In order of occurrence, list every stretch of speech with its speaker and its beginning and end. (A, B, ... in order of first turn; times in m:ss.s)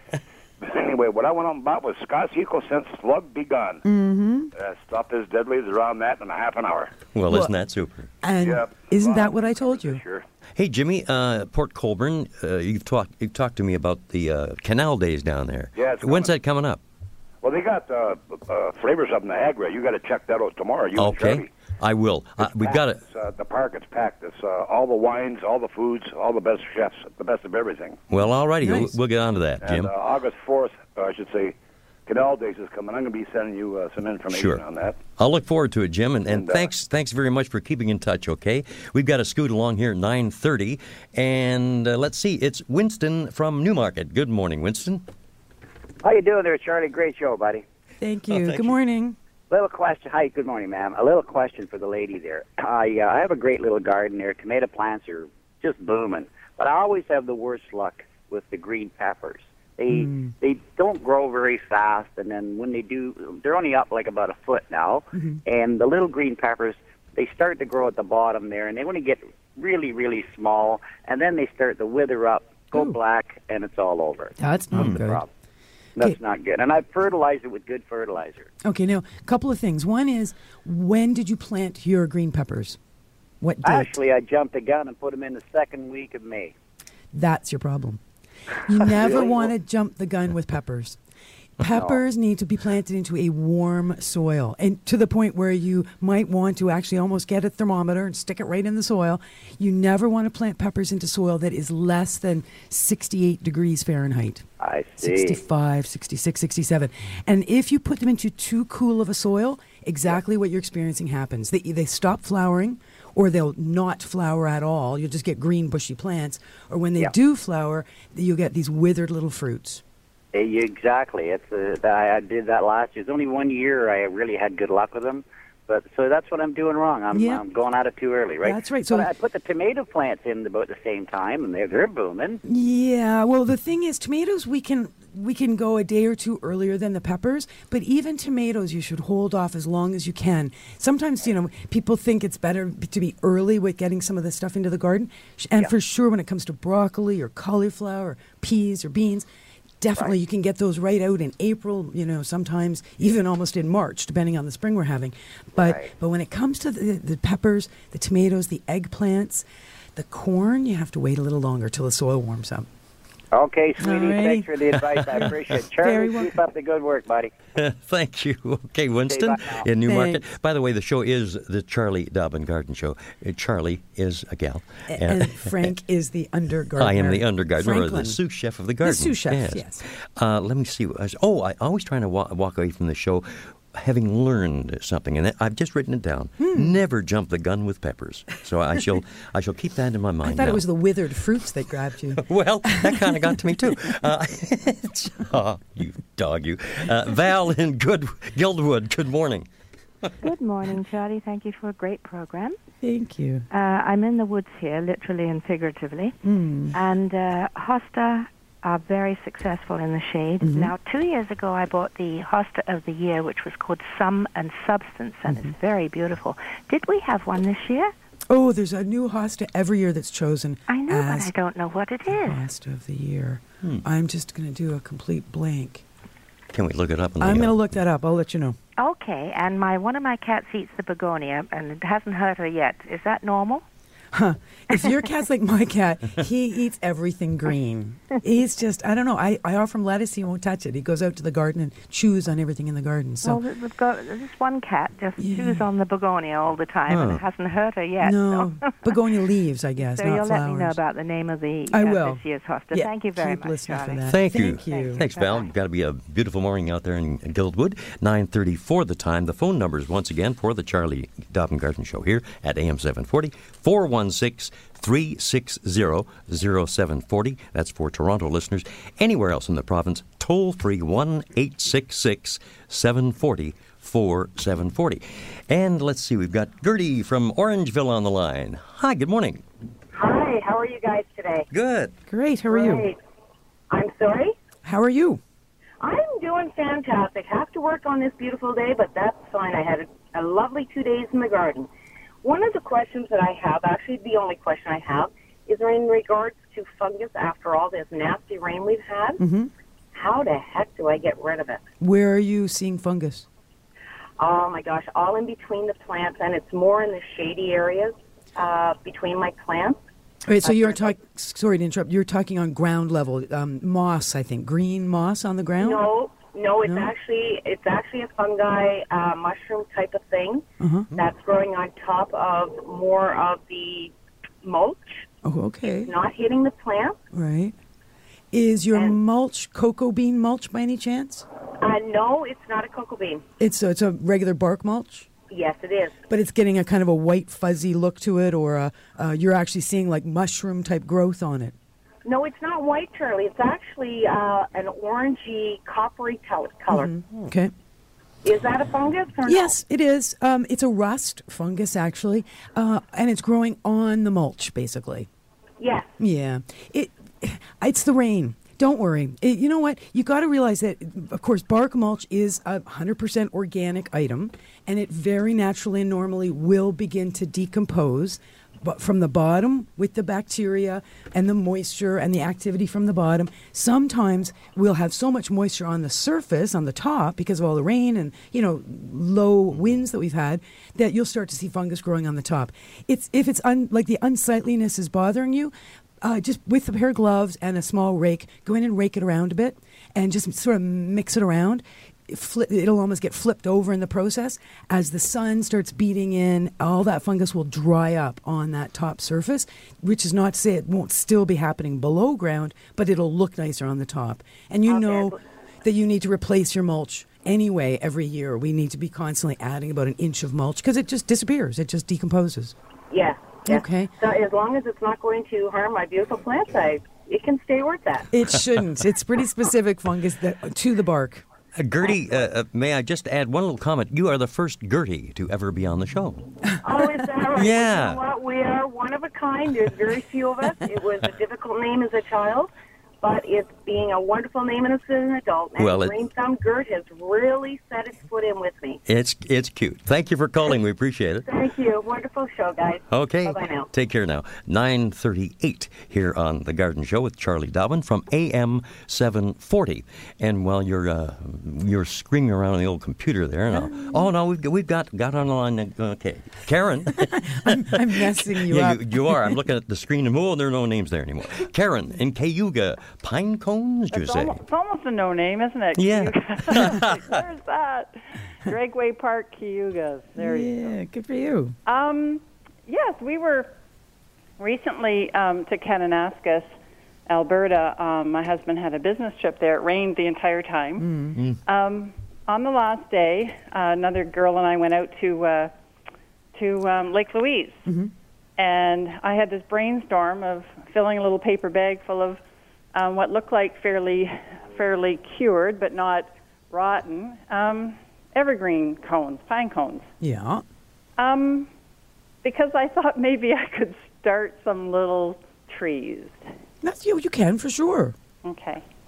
0:00.6-0:03.8 A
0:03.8-0:04.5 B
0:04.6-0:07.0 A
0:07.1-0:08.1 C
0:08.2-0:10.0 B
0:08.4-0:10.2 A
0:10.6-0:16.8 C
0:15.8-0:16.3 A
0:17.4-0:21.5 A
0:21.0-0:23.0 C
0:22.4-0:28.0 A
0:28.1-0:29.9 C
0:28.6-0:28.9 B
0:29.6-0:31.6 A
0:32.1-0:35.0 A
0:34.3-0:34.6 C
0:35.2-0:45.0 C
0:36.3-0:36.7 A
0:46.0-0:47.6 D
0:48.0-0:49.2 B
0:48.3-0:48.7 C
0:49.5-1:15.3 D
0:59.9-1:00.3 B
1:14.4-1:15.2 B
1:14.7-1:15.0 C
1:16.0-1:18.5 D
1:18.6-1:22.8 B
1:23.4-1:24.0 B
1:23.6-1:26.5 D
1:27.1-1:28.0 B
1:28.6-1:31.0 B
1:29.0-1:29.5 D
1:31.6-1:44.5 B
1:31.7-1:32.0 D
1:44.6-1:45.4 D
1:45.0-1:59.8 B
2:00.3-2:12.4 D
2:07.1-2:07.4 B
2:08.4-2:09.1 B
2:12.4-2:29.3 B
2:29.8-2:39.4 B
2:35.6-2:35.9 D
2:40.0-2:42.7 B
2:43.3-2:47.3 D
2:43.8-2:44.5 B
2:44.8-2:45.3 C
2:45.1-2:46.3 B
2:47.6-2:55.7 C
2:49.1-2:49.6 D
2:49.8-2:50.2 B
2:54.9-2:58.2 B
2:56.8-3:10.7 C
2:58.8-2:59.8 B
3:06.4-3:06.8 B
3:10.2-3:13.4 B
3:12.1-3:19.5 C
3:20.2-3:22.6 E
3:22.8-3:23.5 B
3:23.5-3:26.2 E
3:26.2-3:26.8 B
3:26.7-3:37.9 E
3:30.4-3:30.7 B
3:35.3-3:35.5 B
3:38.3-3:41.3 B
3:40.7-3:42.4 E
3:42.1-3:45.8 B
3:46.5-3:47.6 C
3:47.2-3:48.6 B
3:48.8-3:53.6 E
3:54.1-4:03.4 B
4:03.2-4:08.9 E
4:05.2-4:05.6 B
4:06.9-4:07.2 C
4:08.0-4:10.8 B
4:09.8-4:15.5 E
4:11.7-4:15.1 B
4:14.1-4:39.4 C
4:39.9-4:41.5 F
4:41.5-4:41.9 C
4:42.1-4:42.9 B
4:42.5-4:43.0 F
4:43.7-4:44.4 F
4:44.6-4:45.2 B
4:45.8-4:51.7 F
4:52.2-4:59.2 F
4:59.2-4:59.5 B
4:59.9-5:01.7 F
5:01.8-5:03.3 B
5:04.2-5:09.8 F
5:10.3-5:15.8 B
5:10.4-5:11.0 F
5:15.6-5:20.4 F
5:20.6-5:20.9 B
5:21.0-5:25.0 F
5:25.2-5:25.9 B
5:25.7-5:27.0 F
5:27.1-5:27.5 B
5:28.3-5:31.2 B
5:28.7-5:29.0 F
5:31.6-5:33.2 F
5:33.4-5:35.1 B
5:35.3-5:36.1 F
5:36.1-5:41.6 B
5:42.0-5:47.0 F
5:46.7-5:47.5 B
5:48.2-5:49.6 F
5:49.3-5:55.1 B
5:55.6-5:55.9 F
5:56.0-6:52.5 B
6:44.7-6:45.2 F
6:52.9-6:58.1 F
6:53.5-6:53.9 B
6:58.1-7:01.2 B
7:01.6-7:06.3 C
7:06.6-7:12.5 F
7:07.4-7:08.0 C
7:13.0-7:18.8 F
7:15.6-7:16.0 C
7:18.9-7:21.3 C
7:21.3-7:23.7 F
7:22.9-7:44.4 C
7:33.5-7:34.1 B
7:37.1-7:39.3 B
7:43.9-7:50.8 G
7:45.8-7:47.2 C
7:50.2-7:51.6 B
7:51.7-7:53.5 G
7:54.4-7:56.5 G
7:57.1-8:00.9 G
8:00.8-8:01.2 B
8:01.5-8:05.5 G
8:06.3-8:07.7 G
8:08.4-8:12.2 G
8:12.7-8:19.9 G
8:20.0-8:20.4 B
8:21.0-8:21.5 G
8:22.2-8:26.2 G
8:26.6-8:28.0 B
8:28.2-8:28.6 G